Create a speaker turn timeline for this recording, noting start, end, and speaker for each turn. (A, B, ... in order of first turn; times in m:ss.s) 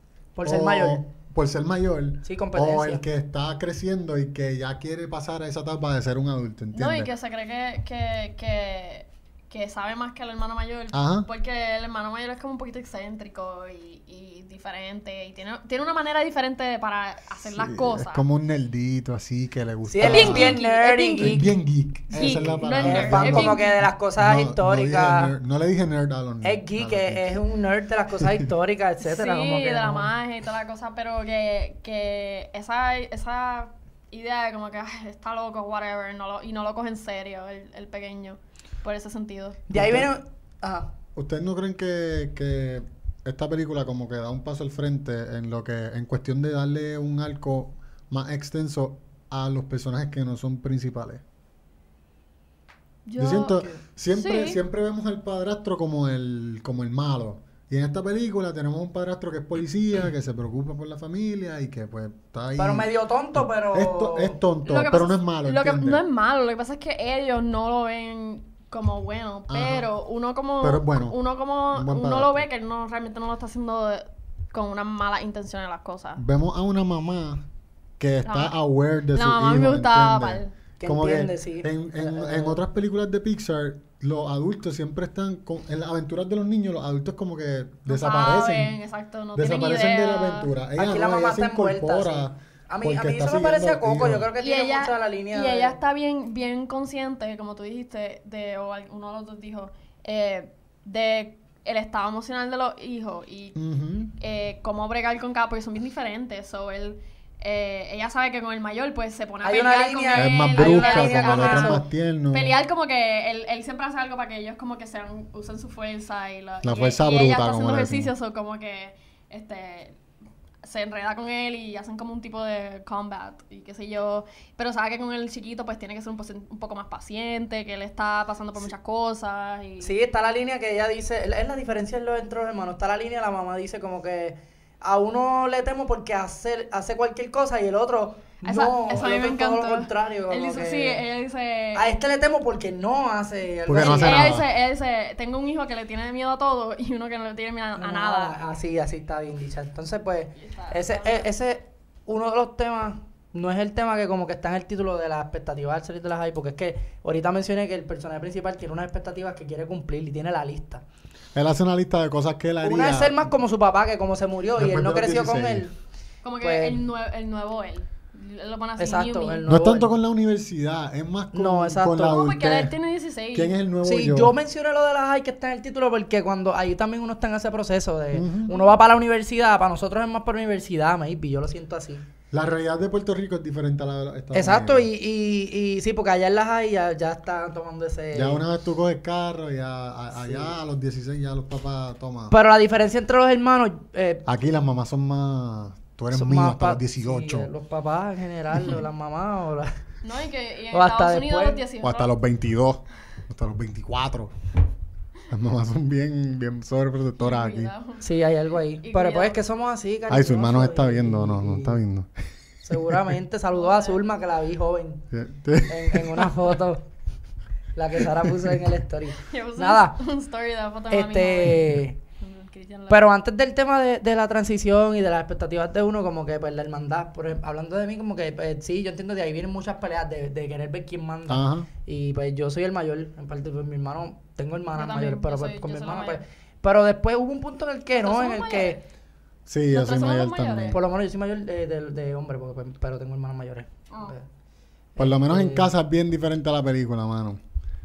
0:00.4-0:01.0 A
0:00.4-0:07.1 B
0:02.2-0:03.0 A
0:06.7-0:18.2 C
0:10.9-0:11.3 B
0:17.5-0:20.6 B
0:19.9-0:21.5 A
0:20.0-0:21.4 C
0:21.2-0:27.4 B
0:22.1-0:23.8 C
0:22.1-0:25.3 A
0:26.4-0:30.1 A
0:29.0-0:39.6 C
0:39.7-0:40.9 A
0:39.7-0:40.1 B
0:41.2-0:51.2 B
0:53.1-0:54.6 C
0:53.2-1:06.0 B
1:02.6-1:04.4 A
1:04.7-1:16.2 C
1:09.5-1:09.9 B
1:10.6-1:11.2 B
1:11.7-1:12.5 B
1:16.2-1:17.4 B
1:18.0-1:28.8 B
1:18.2-1:18.6 C
1:19.1-1:20.5 C
1:20.8-1:22.6 A
1:27.9-1:30.5 C
1:29.4-1:34.3 B
1:30.8-1:35.8 A
1:34.4-1:43.6 C
1:43.6-1:44.2 B
1:44.2-2:00.0 C
1:49.4-1:51.8 A
1:50.2-1:52.6 B
1:56.6-1:58.1 B
2:00.6-2:09.9 C
2:09.8-2:21.0 A
2:18.4-2:21.9 C
2:21.8-2:24.3 A
2:23.7-2:24.5 B
2:23.8-2:28.4 C
2:27.8-2:40.8 A
2:30.4-2:31.3 C
2:41.4-2:43.3 B
2:42.6-2:45.7 A
2:44.6-2:45.7 B
2:46.2-2:49.4 C
2:46.4-2:46.8 A
2:48.8-2:49.9 A
2:49.5-2:52.8 B
2:51.3-2:52.2 A
2:52.0-2:53.5 C
2:53.3-2:54.3 B
2:53.8-3:02.1 A
2:58.1-2:58.5 B
2:58.5-2:58.8 C
3:02.3-3:04.9 B
3:04.3-3:08.4 A
3:08.1-3:12.4 B
3:10.1-3:10.5 A
3:12.3-3:14.2 A
3:14.3-3:17.5 B
3:16.1-3:19.8 A
3:20.0-3:22.1 C
3:20.7-3:21.6 A
3:21.8-3:24.3 B
3:25.3-3:27.7 B
3:27.2-3:28.0 C
3:28.0-3:31.8 A
3:28.8-3:29.4 C
3:30.1-3:32.1 B
3:32.6-3:35.0 A
3:32.7-3:33.0 B
3:33.5-3:34.0 C
3:35.1-3:36.3 B
3:35.7-3:36.9 A
3:37.8-3:40.0 A
3:38.2-3:38.6 B
3:39.2-3:43.0 C
3:40.9-3:42.0 A
3:42.9-3:58.8 A
3:51.3-3:51.7 B
3:54.8-3:56.2 C
3:58.0-3:58.8 C
3:59.5-4:00.8 B
3:59.7-4:00.8 C
4:00.7-4:04.2 A
4:05.0-4:05.7 A
4:05.0-4:07.4 B